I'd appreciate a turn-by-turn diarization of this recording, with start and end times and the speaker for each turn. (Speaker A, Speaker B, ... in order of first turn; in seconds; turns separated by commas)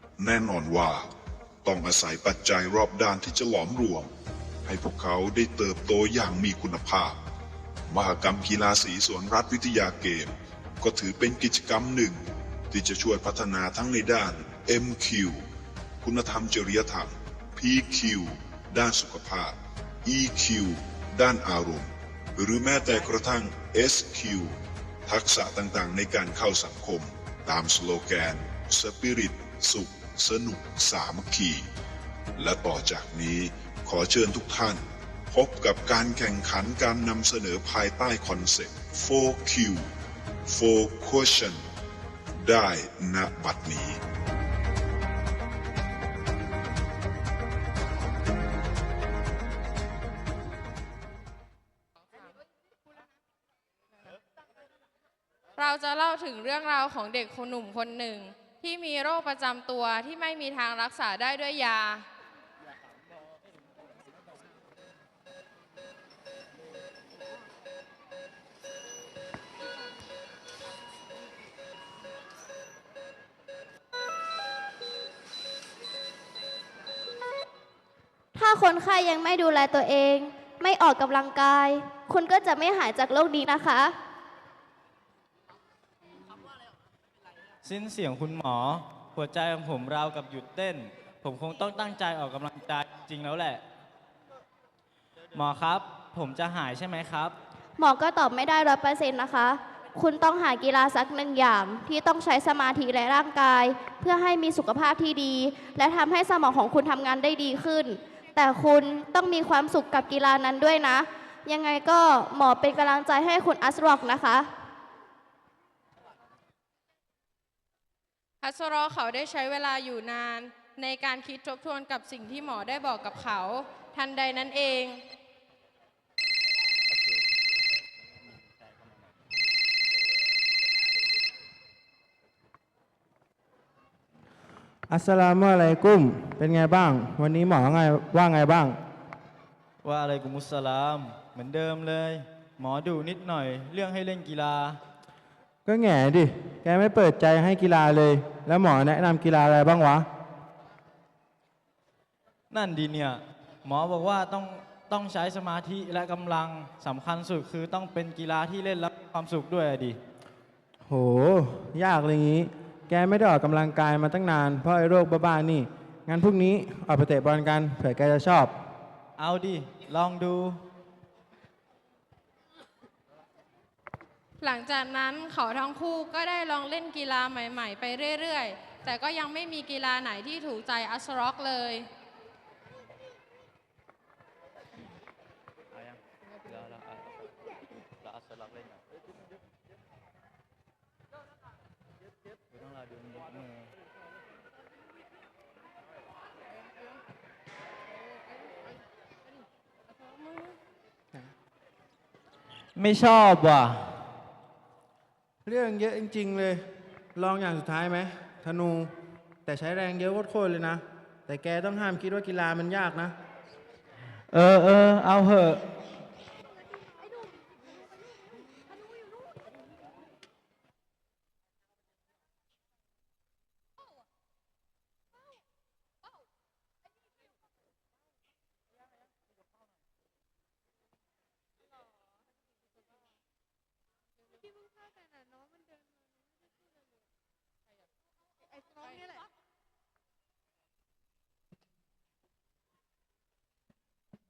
Speaker A: 0.2-1.1, Speaker A: 1.6-4.1, Speaker A: 4.6-7.2, Speaker A: 7.9-15.4, Speaker A: 16.0-31.7, Speaker A: 32.4-39.9, Speaker A: 40.5-41.6, Speaker A: 42.4-44.0, Speaker B: 55.5-62.0, Speaker C: 78.3-84.0, Speaker D: 87.6-93.6, Speaker D: 95.3-97.4, Speaker C: 97.8-114.5, Speaker B: 118.4-125.0, Speaker E: 134.9-138.8, Speaker D: 139.8-144.8, Speaker E: 145.6-150.1, Speaker D: 152.5-160.0, Speaker E: 160.9-168.5, Speaker D: 169.2-170.6, Speaker B: 174.4-181.9, Speaker D: 185.7-187.1, Speaker D: 188.0-188.8, Speaker D: 192.5-193.7, Speaker D: 202.8-204.0, Speaker E: 205.4-206.6, Speaker E: 207.2-208.9, Speaker E: 209.4-213.1, Speaker D: 214.3-215.6